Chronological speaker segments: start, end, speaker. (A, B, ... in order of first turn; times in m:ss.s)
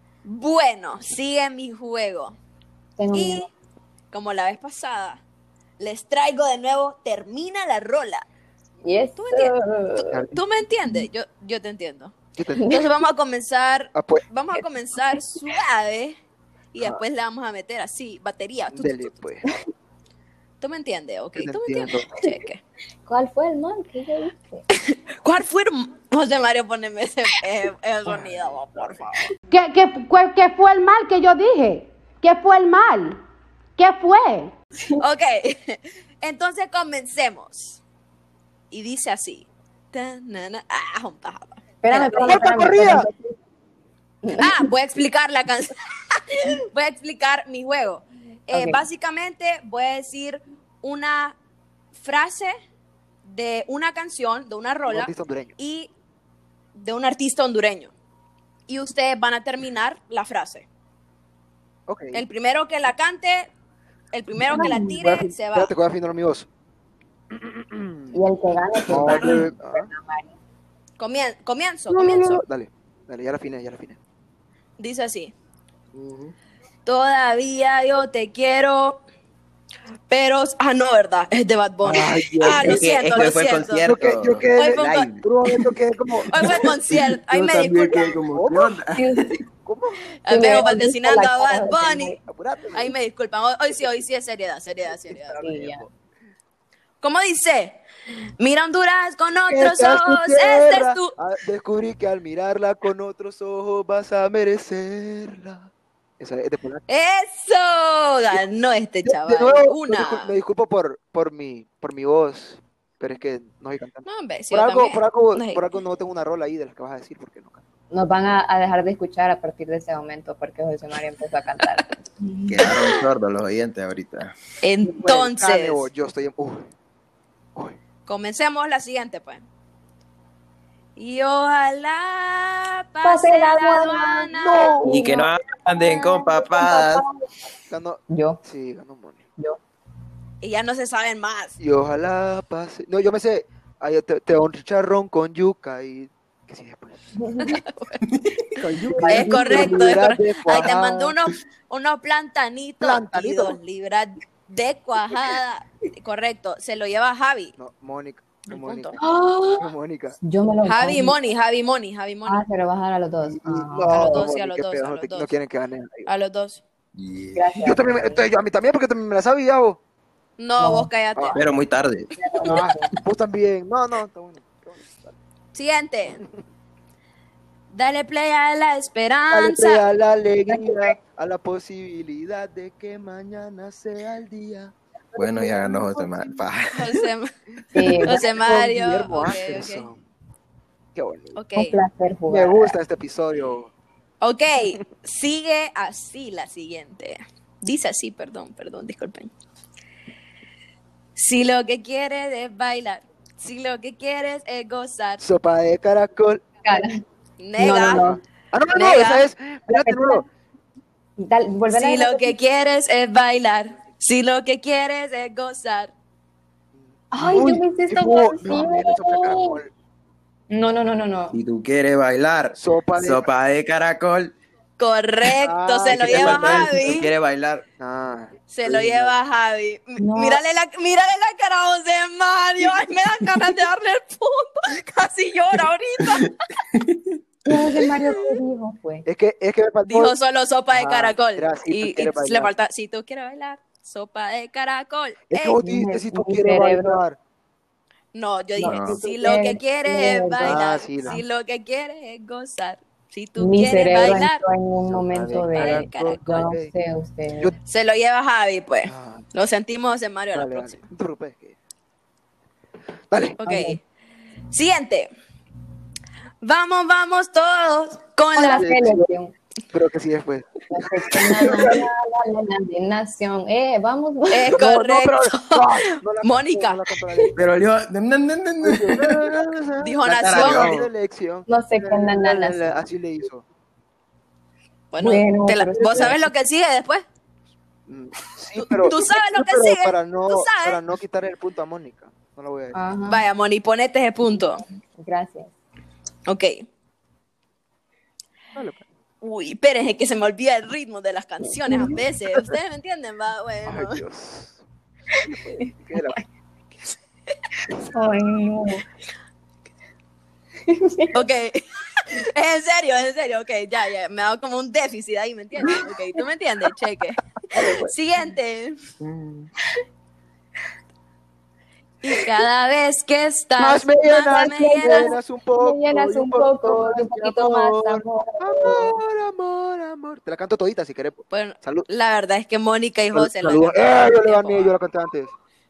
0:00.2-0:02.4 A
0:03.0-0:03.5 B
0:03.1-0:03.5 A
0:04.1-0:05.2 A
0:05.8-0:08.2 A
0:08.8-0:10.3 B
0:09.2-0:09.5 A
0:10.1-0:10.4 C
0:10.3-0:12.2 A
0:12.4-0:12.7 C
0:12.6-0:12.8 B
0:12.7-0:16.2 A
0:14.0-0:14.2 C
0:16.7-0:19.2 A
0:18.7-0:19.5 C
0:20.6-0:22.6 A
0:21.4-0:22.1 C
0:23.1-0:24.6 B
0:24.7-0:29.3 A
0:29.5-0:33.2 D
0:33.8-0:34.5 D
0:35.0-0:37.8 A
0:38.7-0:42.5 A
0:41.8-0:43.4 B
0:42.3-0:43.1 C
0:44.2-0:44.5 B
0:44.4-0:51.4 A
0:48.5-0:48.8 B
0:52.0-0:52.5 A
0:53.2-0:55.9 A
0:54.9-0:55.5 C
0:56.8-0:57.9 A
0:58.7-1:00.7 A
1:01.9-1:02.2 C
1:02.1-1:03.5 A
1:04.1-1:05.7 A
1:04.4-1:06.5 C
1:04.5-1:05.0 B
1:07.3-1:08.2 C
1:08.1-1:10.3 B
1:08.9-1:09.9 C
1:11.0-1:12.4 A
1:11.9-1:14.0 C
1:14.8-1:15.3 A
1:16.0-1:16.3 E
1:16.8-1:19.0 A
1:20.1-1:23.9 A
1:21.8-1:22.9 C
1:22.5-1:25.2 E
1:23.8-1:26.7 C
1:24.6-1:25.1 A
1:26.3-1:28.2 A
1:26.9-1:29.1 E
1:28.2-1:28.8 C
1:28.9-1:29.4 B
1:29.6-1:30.0 C
1:30.2-1:32.2 A
1:30.3-1:32.2 B
1:32.2-1:32.9 C
1:32.7-1:35.4 A
1:35.0-1:35.9 C
1:35.4-1:35.8 B
1:37.0-1:37.8 A
1:38.4-1:41.1 A
1:39.5-1:45.7 C
1:46.2-1:46.8 C
1:46.9-1:50.4 A
1:49.0-1:57.6 C
1:54.1-1:55.7 A
1:57.9-2:02.7 B
2:02.5-2:04.3 E
2:04.6-2:05.9 A
2:04.8-2:06.7 C
2:08.1-2:09.4 A
2:11.0-2:14.8 A
2:13.0-2:17.3 B
2:14.4-2:15.0 C
2:14.8-2:17.0 E
2:17.7-2:19.2 C
2:18.1-2:18.4 B
2:20.4-2:21.6 A
2:21.6-2:27.1 C
2:27.2-2:27.6 B
2:27.4-2:28.0 A
2:28.1-2:28.7 E
2:28.6-2:31.1 C
2:28.9-2:30.0 B
2:29.1-2:37.6 A
2:32.8-2:33.6 C
2:37.6-2:39.0 C
2:38.5-2:39.0 A
2:39.0-2:39.7 B
2:39.6-2:40.2 C
2:40.2-2:41.2 B
2:40.6-2:42.4 A
2:42.3-2:44.2 B
2:43.2-2:46.1 C
2:43.9-2:45.3 A
2:46.1-2:46.6 A
2:47.0-2:47.5 E
2:47.4-2:48.3 B
2:47.6-2:49.8 C
2:50.4-2:51.4 A
2:50.6-2:50.9 B
2:51.2-2:51.4 C
2:51.3-2:52.1 E
2:52.2-2:52.9 B
2:52.4-2:55.2 C
2:55.5-2:56.2 A
2:57.7-2:59.8 A
2:59.3-3:06.4 C
3:00.5-3:00.9 B
3:05.2-3:06.9 E
3:06.8-3:07.3 A
3:07.7-3:08.2 B
3:07.8-3:10.0 C
3:08.0-3:09.9 A
3:11.0-3:11.4 C
3:11.4-3:11.8 A
3:11.6-3:12.8 B
3:12.3-3:13.7 C
3:14.2-3:19.3 A
3:21.2-3:25.2 A
3:25.2-3:26.4 C
3:26.6-3:27.0 B
3:27.4-3:28.1 A
3:27.6-3:28.2 B
3:27.6-3:30.2 C
3:28.7-3:29.3 A
3:29.7-3:30.2 B
3:31.2-3:32.4 B
3:31.7-3:35.9 A
3:36.8-3:39.7 C
3:37.1-3:39.6 B
3:40.5-3:41.4 B
3:41.3-3:44.3 E
3:42.6-3:43.3 C
3:44.8-3:47.1 A
3:45.3-3:47.1 C
3:45.9-3:47.6 E
3:47.8-3:49.1 C
3:48.5-3:56.4 A
3:50.0-3:50.4 B
3:56.0-3:57.2 E
3:57.5-3:59.1 B
3:59.1-4:00.1 C
3:59.9-4:05.6 A
4:00.7-4:02.5 C
4:05.3-4:07.2 C
4:05.6-4:07.0 B
4:08.1-4:14.4 A
4:08.6-4:11.2 B
4:08.6-4:09.0 E
4:10.4-4:11.2 C
4:13.4-4:17.5 B
4:14.9-4:16.7 C
4:15.5-4:16.2 A
4:17.7-4:20.8 A
4:18.9-4:19.2 C
4:20.3-4:21.6 C
4:23.1-4:23.4 C
4:23.4-4:23.8 A
4:23.4-4:23.8 B
4:24.5-4:25.1 A
4:26.4-4:28.7 A
4:28.3-4:29.3 B
4:28.4-4:29.1 C
4:29.7-4:31.8 C
4:30.7-4:34.6 B
4:34.3-4:36.8 A
4:34.5-4:37.4 C
4:37.4-4:39.5 E
4:38.6-4:43.4 C
4:39.8-4:40.8 A
4:40.1-4:40.9 E
4:41.5-4:42.7 B
4:44.9-4:47.0 A
4:45.0-4:46.2 B
4:45.9-4:46.2 C
4:47.9-4:52.8 C
4:48.6-4:50.8 A
4:52.7-4:53.2 B
4:53.1-4:54.6 A
4:55.0-4:55.5 B
4:56.3-4:56.6 A
4:58.6-4:58.8 C
4:59.2-5:04.0 A
5:01.7-5:02.0 B
5:03.7-5:04.6 C
5:05.1-5:06.2 B
5:05.8-5:06.2 C
5:07.9-5:08.8 B
5:10.7-5:11.2 B
5:11.1-5:18.8 A
5:17.6-5:17.9 C
5:19.0-5:19.5 E
5:22.0-5:25.2 A
5:23.6-5:31.9 C
5:24.5-5:29.0 B
5:31.3-5:34.7 A
5:33.1-5:35.3 C